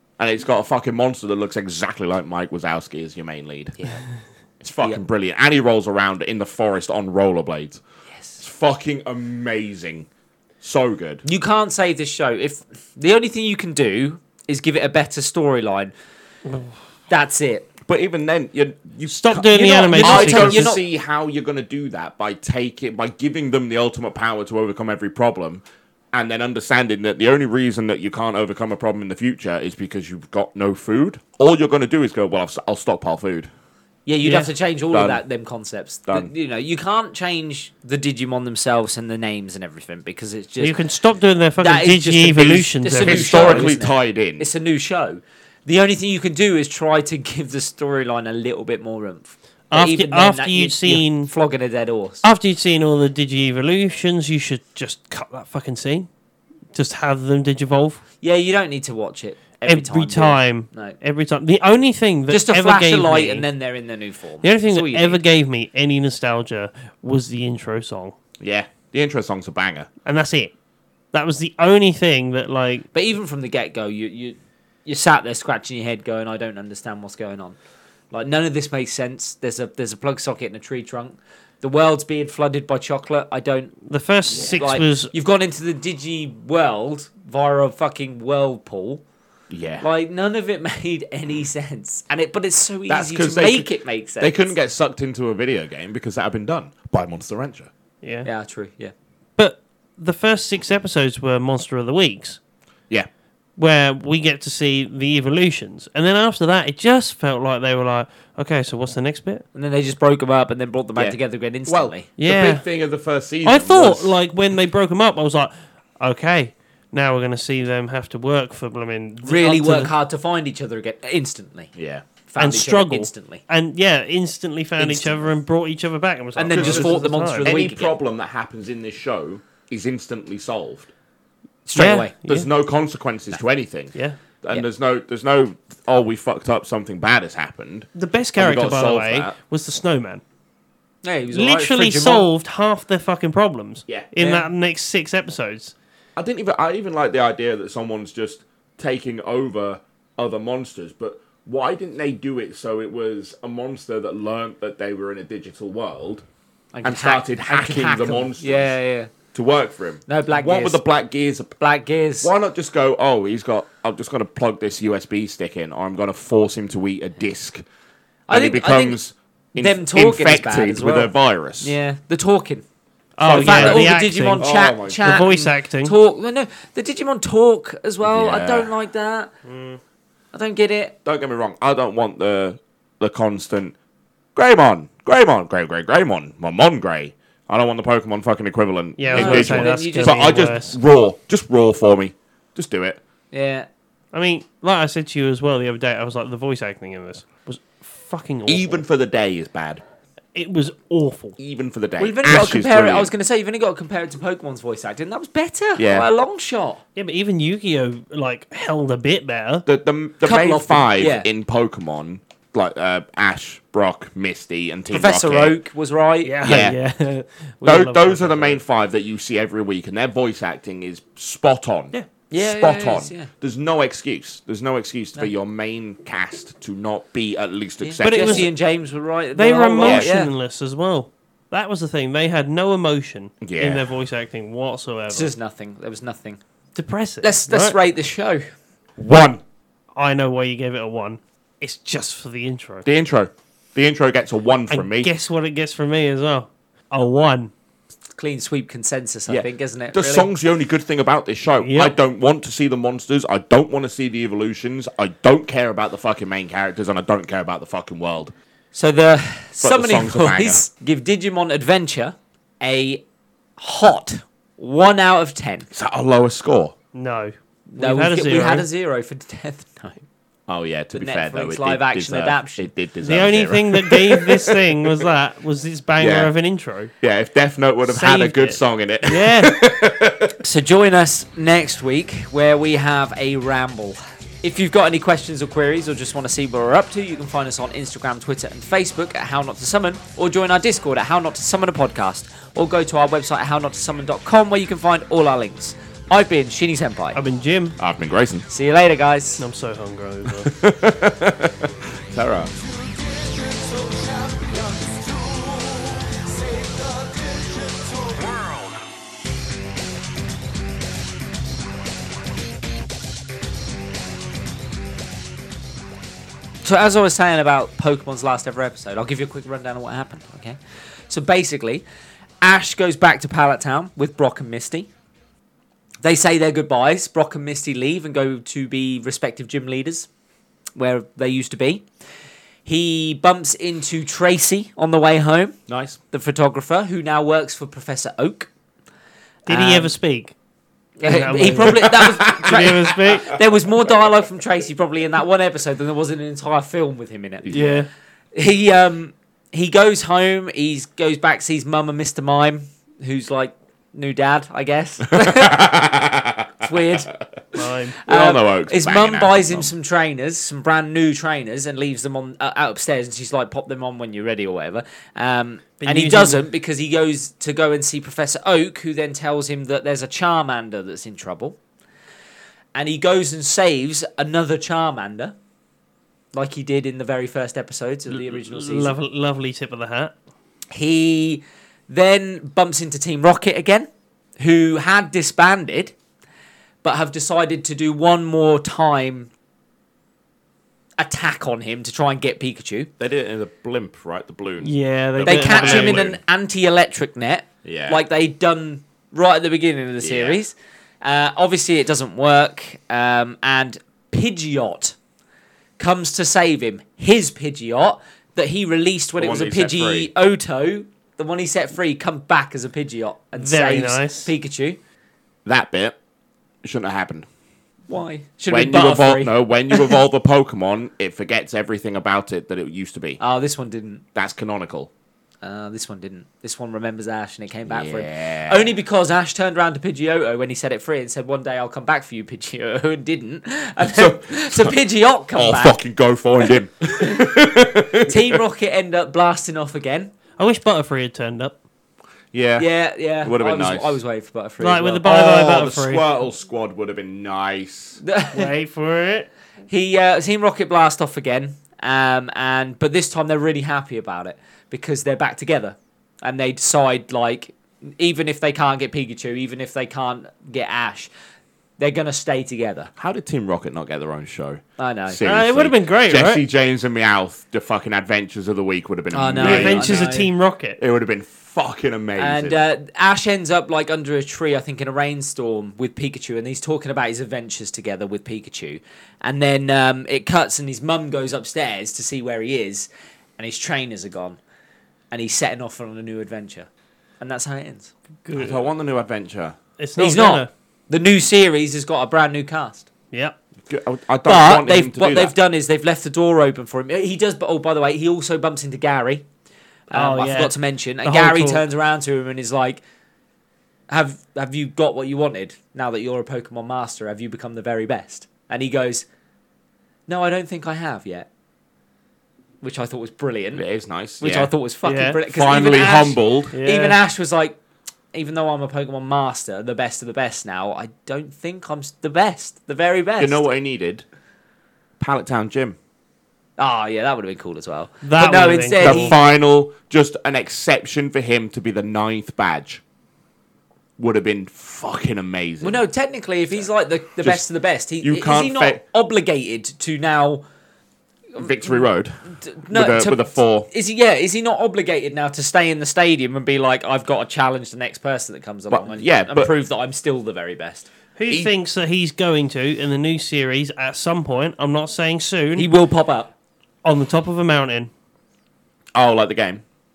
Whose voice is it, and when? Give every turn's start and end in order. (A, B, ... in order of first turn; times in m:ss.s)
0:00.2-0:03.8 A
0:03.8-0:04.0 B
0:04.6-0:07.8 A
0:08.4-0:10.1 A
0:10.6-0:11.2 A
0:11.2-0:15.9 B
0:17.1-0:17.7 B
0:17.9-0:33.5 A
0:19.1-0:20.8 C
0:19.9-0:20.8 B
0:34.0-0:40.8 B
0:34.2-0:34.5 C
0:34.9-0:35.2 A
0:40.6-0:43.7 C
0:41.6-0:52.2 B
0:43.0-0:44.5 A
0:49.7-0:51.3 C
0:52.2-0:56.1 C
0:56.7-0:58.0 C
0:58.2-1:01.0 B
0:59.7-1:03.5 C
1:02.3-1:05.2 B
1:04.4-1:08.1 C
1:08.4-1:09.9 A
1:10.0-1:10.5 C
1:11.1-1:12.8 C
1:12.9-1:17.6 B
1:18.1-1:23.7 B
1:23.9-1:25.1 C
1:24.4-1:29.0 B
1:29.5-1:29.8 A
1:29.8-1:34.5 B
1:32.9-1:33.7 A
1:34.2-1:37.7 A
1:38.0-1:38.3 C
1:38.2-1:38.9 B
1:39.4-1:42.4 C
1:43.6-1:49.4 C
1:49.5-1:52.1 B
1:50.9-1:54.2 A
1:52.2-1:52.6 C
1:53.4-1:59.9 C
1:59.2-2:01.7 B
2:01.7-2:02.0 A
2:02.3-2:03.4 B
2:02.4-2:07.6 C
2:04.8-2:05.3 B
2:06.4-2:07.9 B
2:06.5-2:10.9 A
2:11.6-2:12.1 B
2:11.7-2:12.5 C
2:12.2-2:19.3 A
2:18.0-2:20.2 C
2:21.0-2:22.3 B
2:21.3-2:25.7 C
2:24.2-2:24.5 B
2:26.2-2:36.2 A
2:36.7-2:39.1 B
2:36.8-2:38.7 A
2:39.3-2:41.5 A
2:40.1-2:40.8 B
2:41.6-2:42.3 B
2:42.2-2:47.6 A
2:48.3-2:49.0 B
2:48.3-2:51.7 A
2:49.6-2:52.6 B
2:53.2-2:54.5 C
2:53.2-2:55.2 A
2:53.2-2:59.3 B
2:55.0-2:55.9 C
2:58.0-2:58.7 A
2:59.4-2:59.8 C
3:00.3-3:01.0 B
3:01.0-3:03.7 A
3:04.3-3:13.0 A
3:09.0-3:10.8 C
3:09.1-3:10.5 B
3:13.3-3:13.7 B
3:14.1-3:18.8 C
3:18.4-3:19.8 A
3:20.3-3:21.4 C
3:21.4-3:23.1 A
3:22.0-3:26.8 B
3:25.8-3:26.0 A
3:27.0-3:29.6 C
3:29.6-3:35.6 A
3:30.2-3:31.3 B
3:34.9-3:36.4 B
3:36.2-3:38.6 C
3:36.4-3:36.8 A
3:37.6-3:48.5 A
3:42.3-3:43.3 B
3:47.8-3:50.3 B
3:48.0-3:48.5 C
3:49.3-3:55.3 C
3:49.8-3:50.1 A
3:53.4-3:53.9 A
3:55.1-3:56.4 B
3:56.8-3:57.8 C
3:57.2-3:58.5 B
3:59.0-3:59.4 A
4:00.0-4:02.8 C
4:02.8-4:05.1 A
4:04.7-4:07.5 C
4:08.2-4:10.3 B
4:09.3-4:18.3 A
4:11.6-4:11.9 C
4:18.7-4:23.0 B
4:19.6-4:20.6 A
4:23.6-4:25.7 B
4:25.7-4:26.7 A
4:26.9-4:28.7 C
4:27.7-4:30.0 B
4:30.5-4:35.1 A
4:30.9-4:32.7 B
4:33.0-4:36.9 C
4:36.0-4:36.3 A
4:37.0-4:40.4 A
4:37.8-4:39.6 C
4:40.4-4:57.2 B
4:57.1-4:57.8 C
4:57.8-4:58.5 A
4:58.5-4:59.4 B
4:59.4-5:00.5 C
5:00.2-5:02.5 A
5:02.6-5:08.2 D
5:16.6-5:20.6 B
5:21.1-5:21.8 B
5:22.4-5:24.9 B
5:26.0-5:30.1 B
5:30.8-5:31.8 B
5:32.6-5:35.6 B
5:35.7-5:36.0 A
5:36.1-5:38.5 B
5:39.5-5:40.3 C
5:39.5-5:39.9 B
5:41.0-5:47.8 B
5:41.0-5:43.4 C
5:41.7-5:43.2 A
5:47.4-5:47.8 A
5:47.5-5:47.9 C
5:48.3-5:55.7 B
5:55.1-5:57.2 A
5:56.6-5:57.1 B
5:57.5-5:58.0 C
5:58.0-5:59.7 A
5:58.0-6:11.6 B
6:05.8-6:06.4 C
6:12.7-6:15.4 B
6:16.3-6:19.0 B
6:18.1-6:20.1 C
6:20.7-6:25.9 B
6:26.8-6:29.3 B
6:31.0-6:32.9 B
6:33.0-6:36.2 A
6:34.6-6:36.1 C
6:35.2-6:44.9 B
6:37.6-6:38.0 A
6:40.0-6:40.4 A
6:45.8-6:54.8 B
6:49.2-6:50.1 A
6:53.4-6:54.3 C
6:55.4-6:56.0 A
6:56.6-6:57.3 A
6:57.9-6:59.9 B
6:58.5-7:03.2 A
7:03.2-7:04.0 B
7:04.1-7:04.9 A
7:05.4-7:15.8 B
7:07.7-7:08.7 A
7:13.8-7:14.7 A
7:15.3-7:18.4 A
7:17.0-7:17.3 B
7:18.0-7:20.1 B
7:20.4-7:21.6 C
7:22.3-7:22.7 A
7:22.6-7:25.0 B
7:23.2-7:24.0 A
7:24.6-7:26.0 C
7:25.0-7:28.0 A
7:28.0-7:28.5 B
7:28.3-7:29.3 C
7:29.7-7:41.1 B
7:41.8-7:42.9 B
7:43.0-7:50.1 A
7:44.8-7:45.2 B
7:45.2-7:46.4 C
7:49.1-7:50.3 B
7:49.4-7:50.8 C
7:50.8-7:52.6 A
7:52.2-8:04.4 B
8:05.1-8:06.7 B
8:07.2-8:07.9 B
8:08.2-8:08.6 C
8:08.3-8:09.6 A
8:09.8-8:10.5 C
8:10.0-8:12.9 B
8:13.7-8:15.3 A
8:14.2-8:19.2 B
8:19.9-8:22.8 B
8:19.9-8:21.6 C
8:23.9-8:29.0 B
8:30.1-8:31.3 B
8:32.6-8:33.6 B
8:33.5-8:34.5 A
8:34.2-8:37.6 B
8:34.8-8:35.2 C
8:35.2-8:36.5 A
8:36.5-8:37.0 C
8:38.1-8:43.4 B
8:43.2-8:44.0 A
8:45.0-8:45.8 A
8:46.6-8:49.2 B
8:48.0-8:49.2 C
8:48.8-8:52.8 A
8:54.0-8:55.8 A
8:55.6-9:00.4 B
8:58.0-8:58.8 A
9:01.3-9:01.8 B
9:01.4-9:02.1 A
9:02.4-9:10.9 B
9:02.7-9:03.7 A
9:08.7-9:09.5 A
9:11.2-9:15.7 C
9:15.6-9:16.3 B
9:16.8-9:17.9 C
9:18.9-9:19.6 A